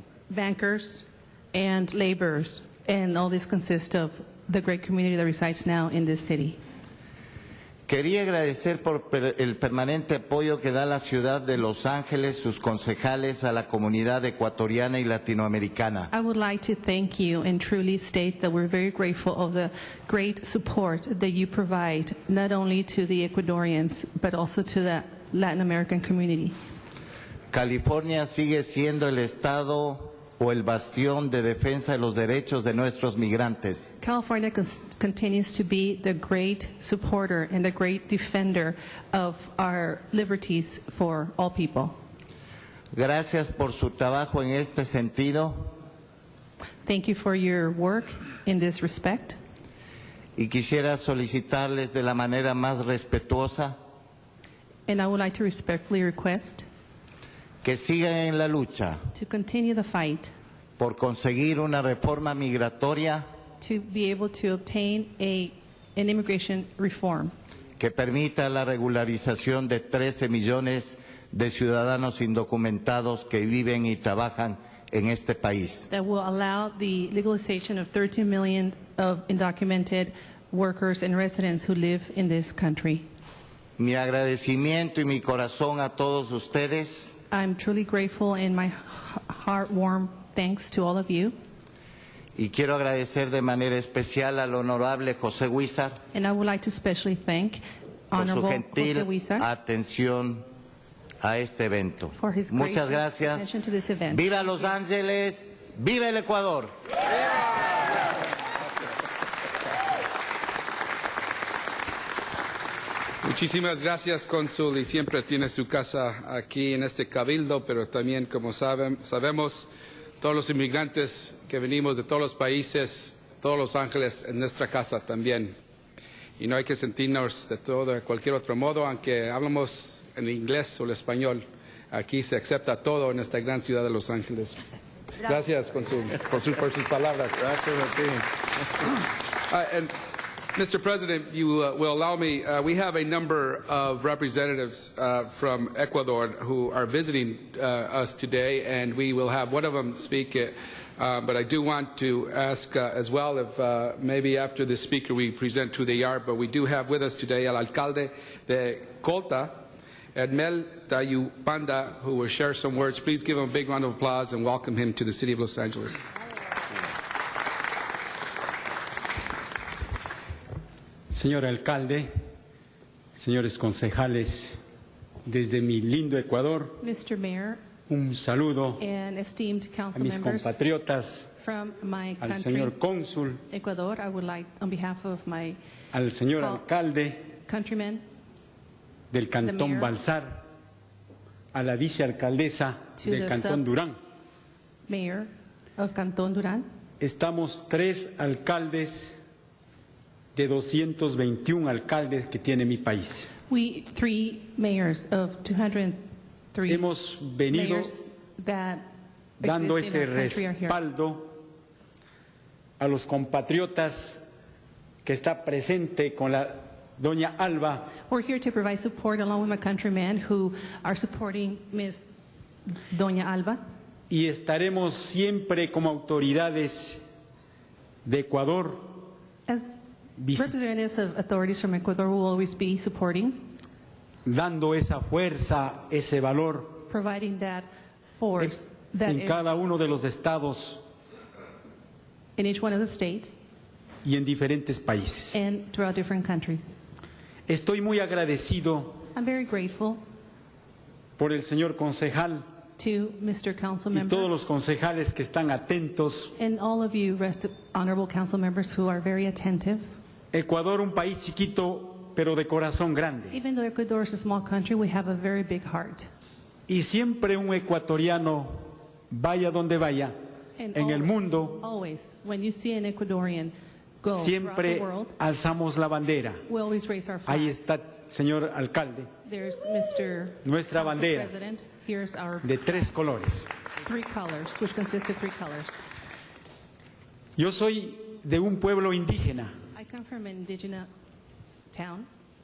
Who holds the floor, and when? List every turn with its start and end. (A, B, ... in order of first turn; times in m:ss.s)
0:00.3-0:06.6 A
0:07.9-0:16.1 B
0:16.1-0:26.6 A
0:27.5-0:33.9 B
0:34.0-0:42.0 A
0:42.9-0:45.7 B
0:46.8-0:49.4 A
0:50.4-0:53.8 B
0:54.9-0:56.6 A
0:57.6-0:59.0 B
0:59.2-1:00.3 A
1:00.8-1:03.2 B
1:03.6-1:07.3 A
1:07.8-1:15.9 B
1:15.9-1:23.1 A
1:23.8-1:27.2 B
1:27.3-1:31.4 A
1:32.4-1:36.0 B
1:36.1-1:39.5 A
1:38.1-1:40.4 B
1:41.2-1:43.5 B
1:42.2-1:44.7 A
1:44.1-1:46.7 B
1:53.2-1:59.7 C
2:00.2-2:05.6 C
2:06.4-2:14.6 C
2:15.2-2:18.2 C
2:19.5-2:19.9 C
2:20.6-2:46.1 C
2:51.1-2:52.1 D
2:53.2-2:54.6 D
2:55.3-2:56.8 D
2:56.8-2:57.6 A
2:57.9-2:58.8 D
2:58.8-3:00.6 A
3:00.0-3:01.3 D
3:01.4-3:02.8 A
3:02.2-3:03.4 D
3:03.5-3:05.6 A
3:05.9-3:07.3 D
3:06.4-3:06.7 A
3:07.4-3:08.0 A
3:09.1-3:10.5 D
3:09.4-3:09.9 A
3:11.5-3:14.0 D
3:13.0-3:13.6 A
3:14.9-3:16.7 A
3:17.0-3:19.2 D
3:20.4-3:23.3 D
3:23.5-3:26.0 A
3:26.5-3:26.9 A
3:26.7-3:27.9 D
3:27.5-3:28.9 A
3:29.4-3:31.5 D
3:29.4-3:30.8 A
3:32.8-3:34.2 D
3:35.0-3:37.9 D
3:38.1-3:42.1 A
3:42.7-3:43.6 A
3:44.1-3:47.0 D
3:48.0-3:49.1 D
3:49.5-3:49.8 A
3:50.2-3:50.5 D
3:50.3-3:53.5 A
3:54.2-3:56.8 D
3:56.9-3:59.5 A
3:58.4-4:00.8 D
4:02.4-4:03.4 A
4:04.0-4:05.4 D
4:05.3-4:06.8 A
4:07.5-4:09.1 D
4:09.1-4:10.0 A
4:11.2-4:12.4 D
4:12.8-4:14.4 A
4:13.9-4:16.3 D
4:16.4-4:19.8 A
4:20.3-4:23.4 D
4:23.3-4:26.1 A
4:26.7-4:30.2 D
4:30.6-4:35.2 A
4:30.7-4:31.6 D
4:34.2-4:36.4 D
4:36.5-4:37.6 A
4:37.3-4:39.1 D
4:39.2-4:43.0 A
4:40.4-4:41.3 D
4:42.4-4:43.5 D
4:43.8-4:45.9 A
4:47.4-4:49.5 D
4:49.7-4:50.9 A
4:51.7-4:52.1 A